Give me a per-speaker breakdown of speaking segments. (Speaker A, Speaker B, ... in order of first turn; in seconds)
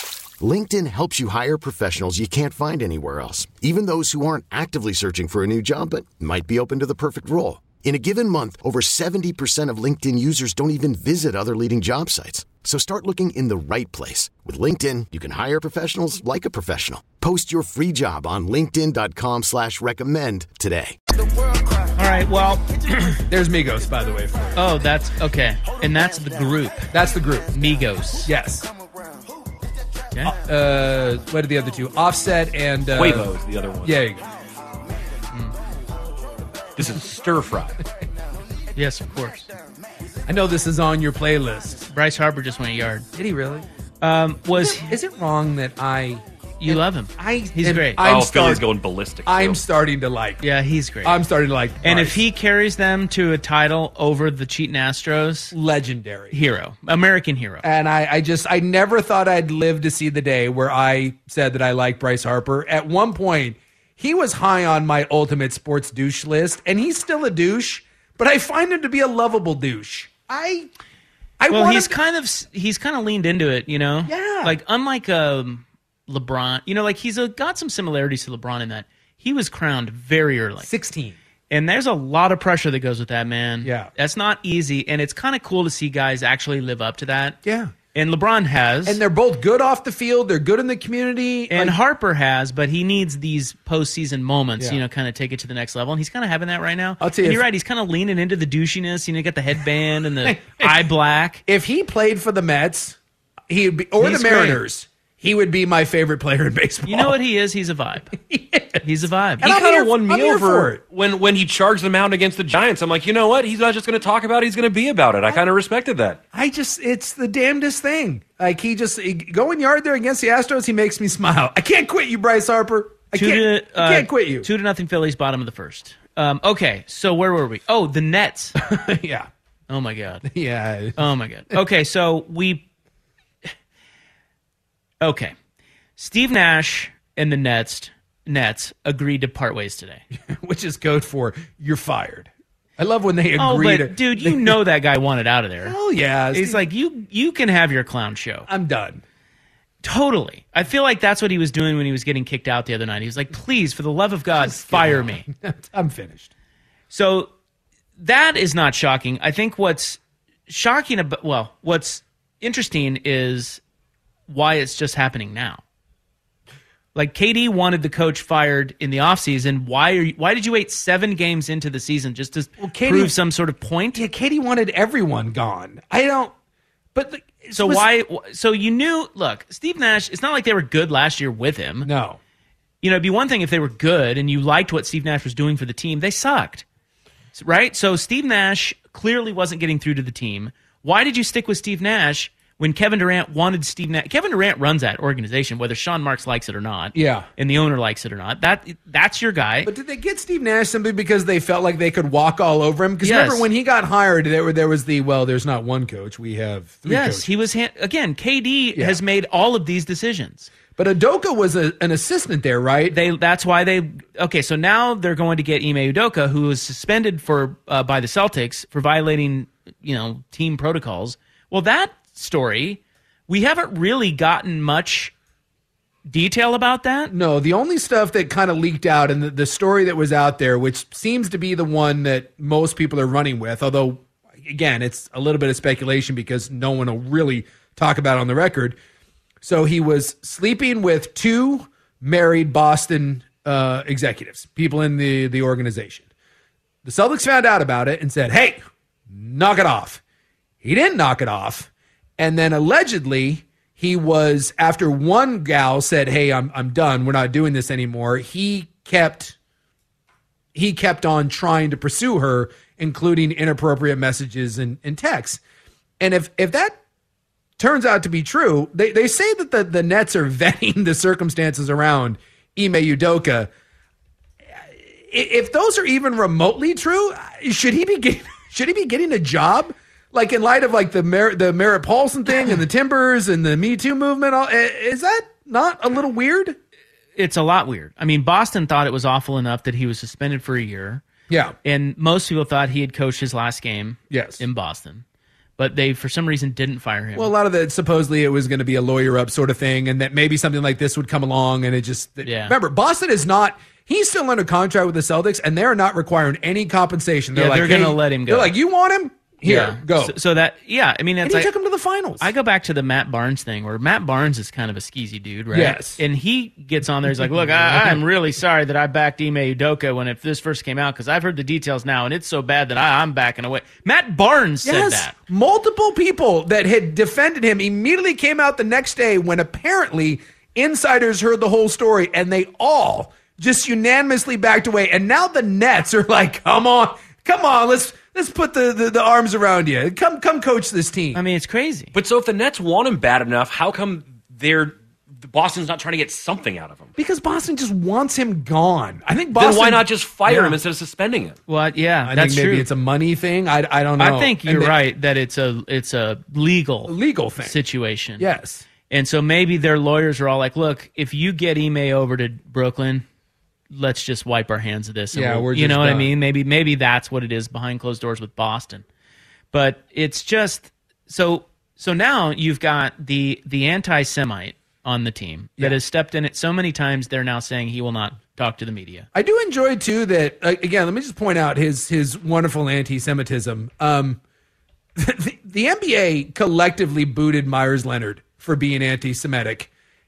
Speaker A: 0.4-21.0
Speaker B: 21.9-23.2, 24.5-26.9, 27.5-28.3, 38.8-39.5, 41.9-43.1, 44.0-44.9, 46.6-48.0, 50.4-51.2, 51.8-55.5, 56.3-57.6, 71.5-80.7, 81.5-87.4, 87.9-89.0, 91.5-101.4, 104.0-104.6, 106.8-108.1, 108.8-109.5, 123.1-128.6, 129.7-130.3, 130.9-132.7, 135.0-135.3, 136.0-140.0, 143.4-145.8, 146.3-148.5, 149.8-155.2, 156.9-157.3, 158.0-163.6, 164.3-165.6, 166.9-174.0, 177.5-181.9, 182.8-186.6, 187.3-199.7, 203.0-203.5, 206.8-210.5, 212.9-225.1, 226.1-227.1, 287.1-291.0, 291.6-295.0, 295.6-297.3, 302.2-302.5, 307.3-308.5, 309.4-311.5, 312.2-325.1, 341.1-341.9, 351.5-352.7, 354.0-358.2, 358.9-363.0, 363.7-368.8, 369.5-379.1
Speaker C: 23.3-24.7, 26.9-27.5, 28.2-28.7, 30.2-34.2, 40.3-41.8, 43.1-43.6, 44.5-48.6, 49.2-50.4, 51.0-52.2, 55.5-56.4, 57.6-70.7, 71.4-72.0, 74.0-74.6, 80.6-81.2, 83.6-83.9, 87.4-87.7, 88.8-91.8, 97.0-97.4, 100.2-100.8, 101.5-103.0, 103.5-107.2, 108.2-108.8, 109.4-110.8, 116.3-124.5, 128.6-129.3, 130.2-131.0, 140.1-144.6, 145.6-146.7, 148.5-149.0, 154.3-156.3, 172.6-173.1, 173.9-176.3, 176.9-177.9, 181.8-182.2, 196.9-197.3, 199.6-207.2, 210.8-213.0, 227.1-238.8, 239.4-246.1, 246.8-250.0, 250.6-259.4, 260.5-265.4, 266.0-266.8, 267.6-273.5, 274.5-286.6, 291.3-291.5, 294.1-294.4, 297.1-310.1, 311.2-312.3, 315.5-316.0, 317.2-318.0, 324.6-341.2, 347.0-350.6, 352.0-354.8, 356.9-357.6, 358.2-358.6, 365.1-366.1, 379.1-384.2, 385.0-389.7
Speaker D: 32.9-34.0, 36.8-37.8, 48.0-49.6, 109.4-116.2, 341.9-346.9, 349.4-351.4